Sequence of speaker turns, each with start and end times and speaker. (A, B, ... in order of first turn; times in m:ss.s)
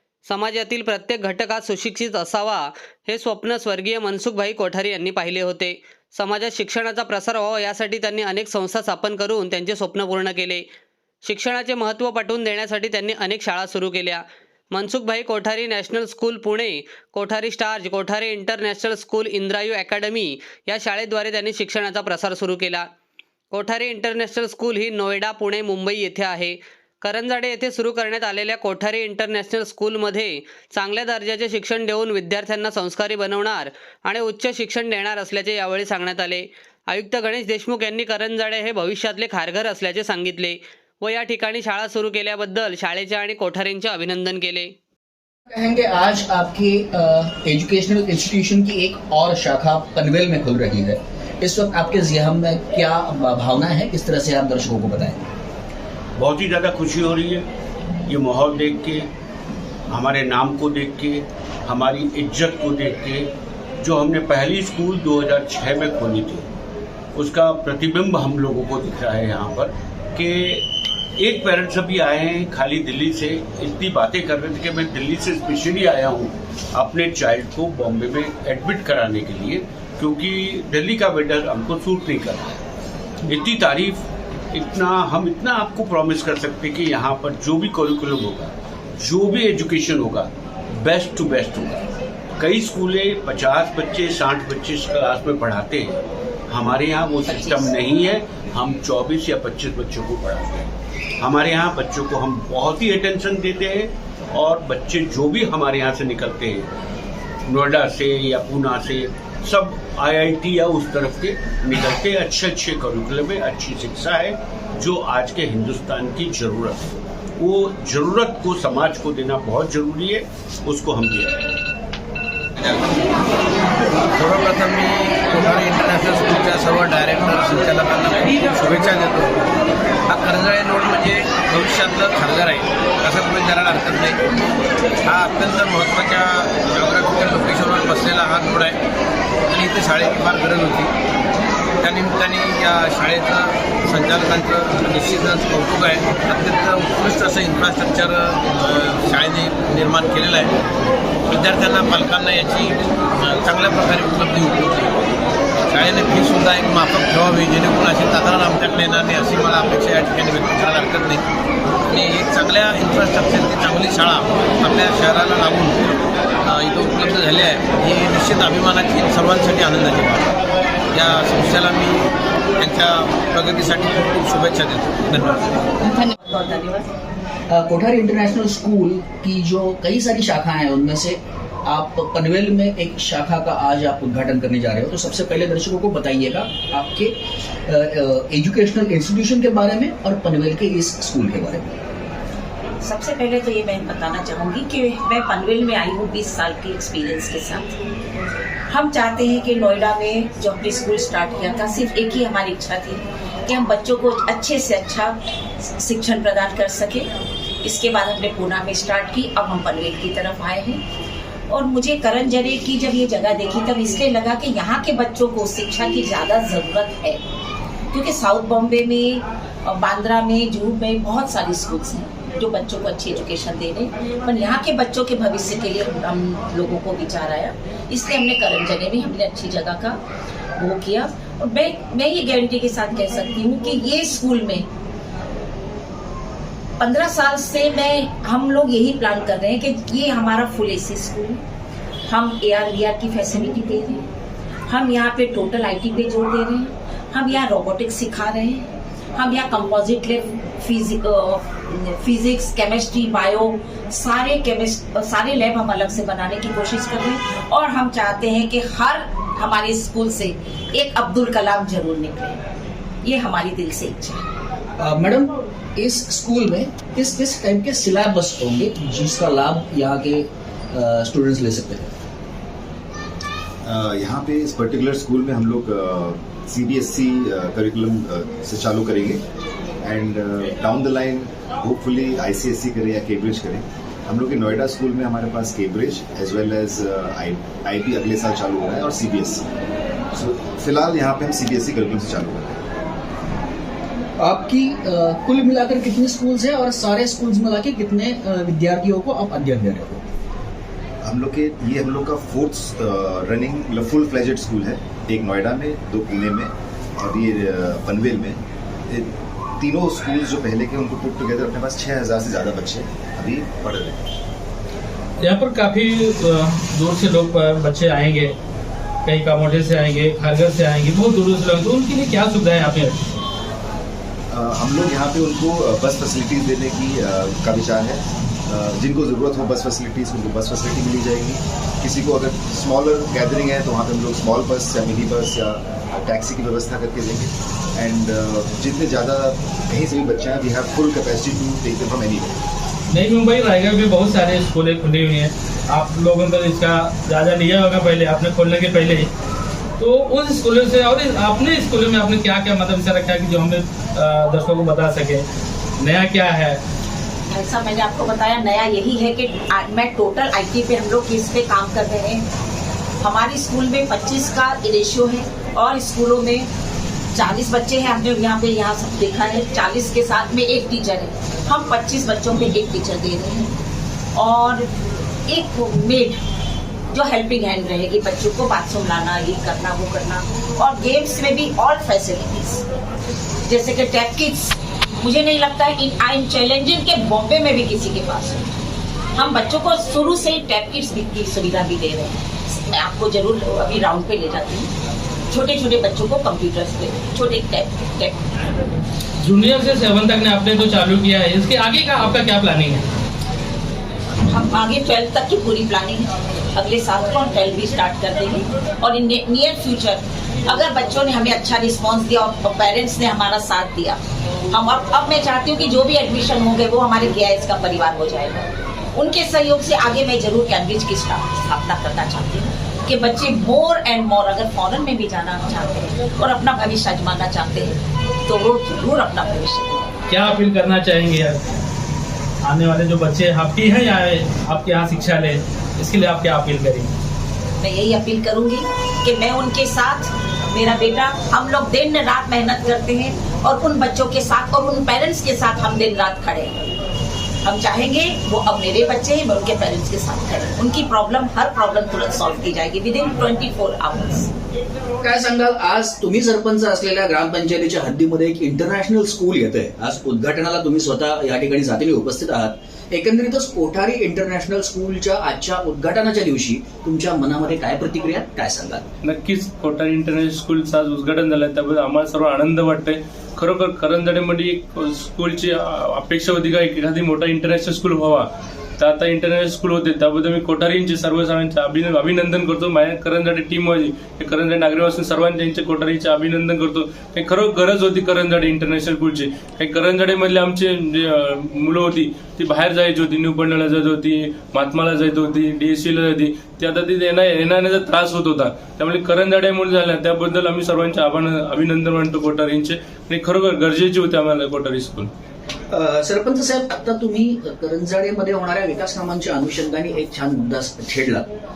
0:00.3-0:10.6 A
0:11.2-0:22.9 A
0:23.5-0:44.7 A
0:45.5-0:55.3 B
0:56.2-0:57.4 C
0:58.1-0:59.1 C
0:59.9-1:03.3 C
1:03.8-1:06.5 C
1:07.2-1:10.6 C
1:11.2-1:22.6 C
1:23.3-1:30.3 C
1:30.8-1:31.8 C
1:32.4-1:35.9 C
1:36.5-1:40.7 C
1:37.3-1:37.8 D
1:41.2-1:46.7 C
1:47.5-2:01.4 C
2:02.6-2:03.0 E
2:04.1-2:09.4 E
2:10.1-2:14.2 E
2:15.0-2:18.8 E
2:19.5-2:20.9 E
2:21.8-2:30.5 E
2:31.3-2:35.1 E
2:35.7-2:41.2 E
2:41.9-2:45.9 E
2:46.4-2:50.4 E
2:50.9-2:52.0 E
2:52.6-2:55.6 E
2:55.8-2:56.9 D
2:57.5-3:11.8 B
3:12.8-3:17.7 D
3:18.7-3:25.2 D
3:25.8-3:27.1 D
3:27.6-3:30.8 D
3:31.5-3:37.2 D
3:37.9-3:50.0 D
3:50.6-3:54.6 D
3:56.8-4:01.4 D
4:02.1-4:04.0 D
4:04.7-4:22.4 D
4:23.0-4:24.2 D
4:24.8-4:31.9 B
4:33.6-4:39.2 F
4:39.8-4:49.5 F
4:50.1-4:52.6 F
4:54.2-5:00.0 B
5:01.0-5:14.1 F
5:15.2-5:18.4 G
5:19.1-5:23.0 G
5:24.3-5:42.4 F
5:42.9-5:49.1 G
5:49.8-5:55.2 G
5:55.8-5:56.6 G
5:57.3-6:02.2 D
6:03.0-6:06.5 D
6:07.2-6:13.5 D
6:14.2-6:14.7 D
6:15.3-6:16.2 D
6:16.9-6:22.6 D
6:23.5-6:28.5 D
6:29.2-6:34.7 D
6:35.3-6:38.2 D
6:39.2-6:42.9 G
6:44.3-6:54.0 D
6:54.5-7:09.9 D
7:10.1-7:11.4 G
7:12.4-7:16.9 G
7:17.6-7:26.6 D
7:27.4-7:34.3 D
7:35.0-7:48.9 B
7:49.0-7:58.3 H
7:58.8-8:25.1 H
8:25.7-8:31.3 B